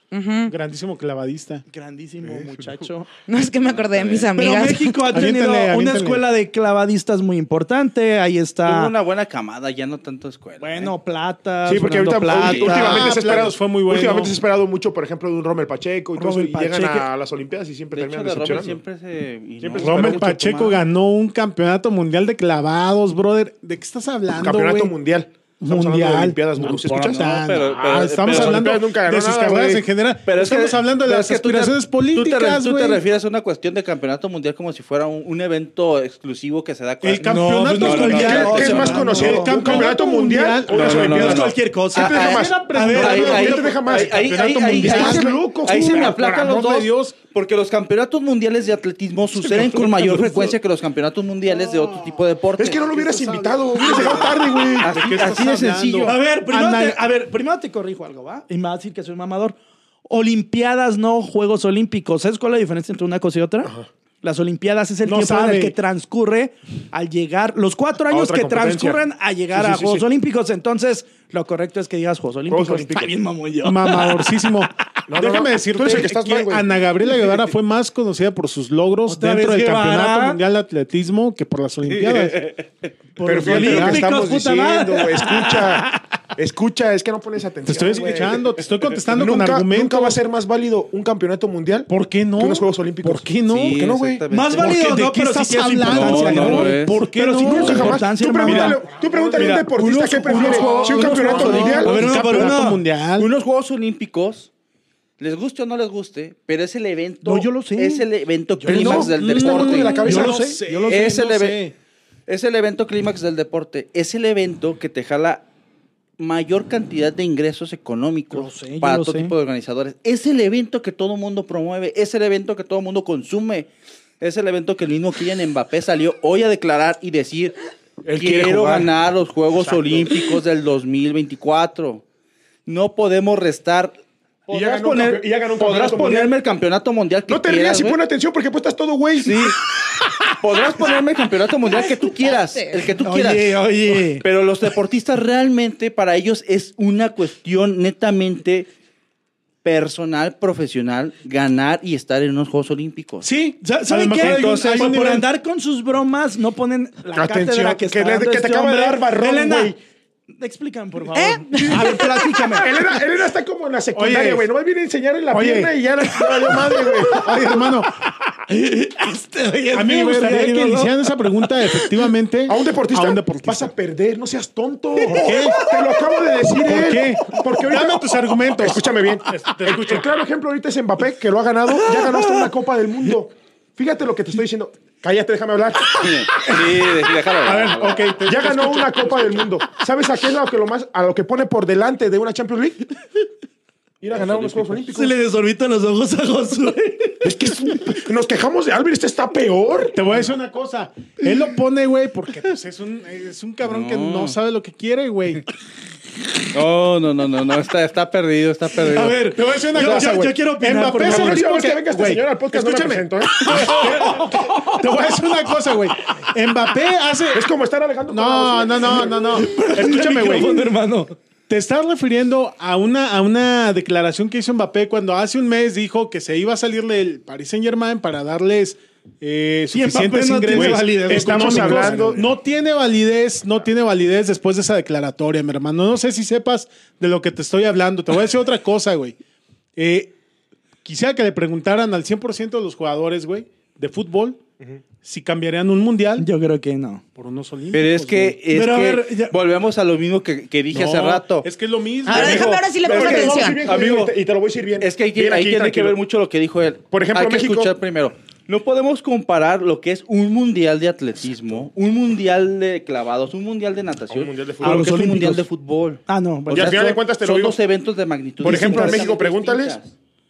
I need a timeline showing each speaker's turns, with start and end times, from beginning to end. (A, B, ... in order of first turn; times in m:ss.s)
0:00.1-0:00.5 A
0:00.5-0:01.6 B
0:01.7-0:03.1 C
0:03.3-0:05.2 A
0:03.6-0:04.3 D
0:04.4-0:08.9 C
0:05.1-0:06.3 B
0:08.6-0:10.9 D
0:10.6-0:13.1 C
0:11.6-0:18.8 E
0:12.3-0:13.0 D
0:12.6-0:14.4 B
0:16.2-0:17.1 C
0:17.9-0:20.8 D
0:19.6-0:20.3 E
0:19.8-0:24.9 B
0:24.3-0:29.8 E
0:25.6-0:33.0 B
0:26.9-0:28.8 D
0:30.3-0:39.3 D
0:37.0-0:41.5 B
0:37.2-0:39.9 C
0:38.0-0:46.4 E
0:40.7-0:52.8 D
0:41.1-0:43.4 C
0:42.1-0:47.2 B
0:49.4-0:50.5 B
0:51.4-0:52.2 B
0:52.6-0:55.0 E
0:52.7-0:57.0 B
0:54.8-0:56.2 D
0:56.0-1:14.3 C
1:05.0-1:05.8 B
1:08.1-1:10.0 E
1:12.5-1:13.1 E
1:13.6-1:22.5 B
1:15.1-1:16.7 E
1:19.1-1:20.4 C
1:21.9-1:22.7 D
1:23.2-1:26.0 C
1:23.2-1:34.2 E
1:23.4-1:24.1 B
1:27.6-1:30.2 B
1:31.9-1:34.0 B
1:33.5-1:34.8 D
1:34.3-1:38.8 C
1:34.6-1:43.3 B
1:35.8-1:37.0 D
1:37.4-1:42.0 E
1:39.4-1:39.7 D
1:39.5-1:42.8 C
1:40.3-1:42.5 D
1:43.2-1:44.5 D
1:45.2-1:51.7 D
1:47.2-1:48.0 C
1:48.6-1:49.1 C
1:48.7-1:50.5 E
1:49.2-1:51.7 B
1:50.0-1:51.0 C
1:52.3-1:55.4 D
1:56.2-2:03.7 D
1:58.3-1:59.3 C
2:04.2-2:07.6 D
2:08.0-2:08.9 E
2:08.1-2:12.0 D
2:09.5-2:10.3 E
2:12.7-2:14.0 D
2:14.5-2:18.0 D
2:14.5-2:16.3 E
2:17.3-2:19.5 E
2:19.2-2:19.6 D
2:20.3-2:28.7 D
2:22.3-2:22.8 A
2:23.0-2:24.2 C
2:29.6-2:33.3 D
2:33.2-2:35.3 B
2:33.6-2:39.8 C
2:34.2-2:35.0 D
2:37.1-2:39.8 E
2:40.4-2:42.8 C
2:41.1-2:42.4 A
2:42.6-2:47.2 E
2:43.9-2:44.5 B
2:45.3-2:45.8 B
2:46.3-2:50.9 C
2:47.1-2:47.9 B
2:49.7-2:53.7 B
2:51.5-2:52.0 C
2:52.5-3:06.1 E
2:55.0-2:56.1 C
2:55.1-2:55.6 B
2:56.6-3:00.1 B
3:01.7-3:02.5 C
3:05.9-3:08.1 D
3:07.4-3:09.4 B
3:08.3-3:12.8 E
3:14.0-3:15.2 E
3:14.1-3:14.8 D
3:14.9-3:17.8 C
3:17.2-3:20.0 E
3:19.9-3:25.4 B
3:23.6-3:24.4 D
3:26.5-3:29.2 D
3:28.8-3:31.4 C
3:29.3-3:37.5 B
3:31.0-3:33.8 E
3:33.4-3:34.8 C
3:37.3-3:39.4 E
3:38.1-3:40.6 B
3:39.2-3:41.2 C
3:41.5-3:59.2 B
3:49.7-3:52.3 C
3:50.5-3:52.2 E
3:59.8-4:00.2 B
4:00.8-4:04.4 B
4:05.0-4:06.3 B
4:06.2-4:07.0 C
4:07.2-4:08.4 B
4:07.7-4:11.5 D
4:08.5-4:09.3 C
4:10.7-4:12.6 B
4:12.1-4:13.6 A
4:12.1-4:14.1 D
4:12.1-4:16.0 E
4:14.8-4:29.9 D
4:16.9-4:17.7 E
4:24.1-4:24.9 E
4:24.6-4:25.4 C
4:26.1-4:27.0 C
4:26.5-4:27.6 E
4:28.4-4:29.8 E
4:28.4-4:29.1 C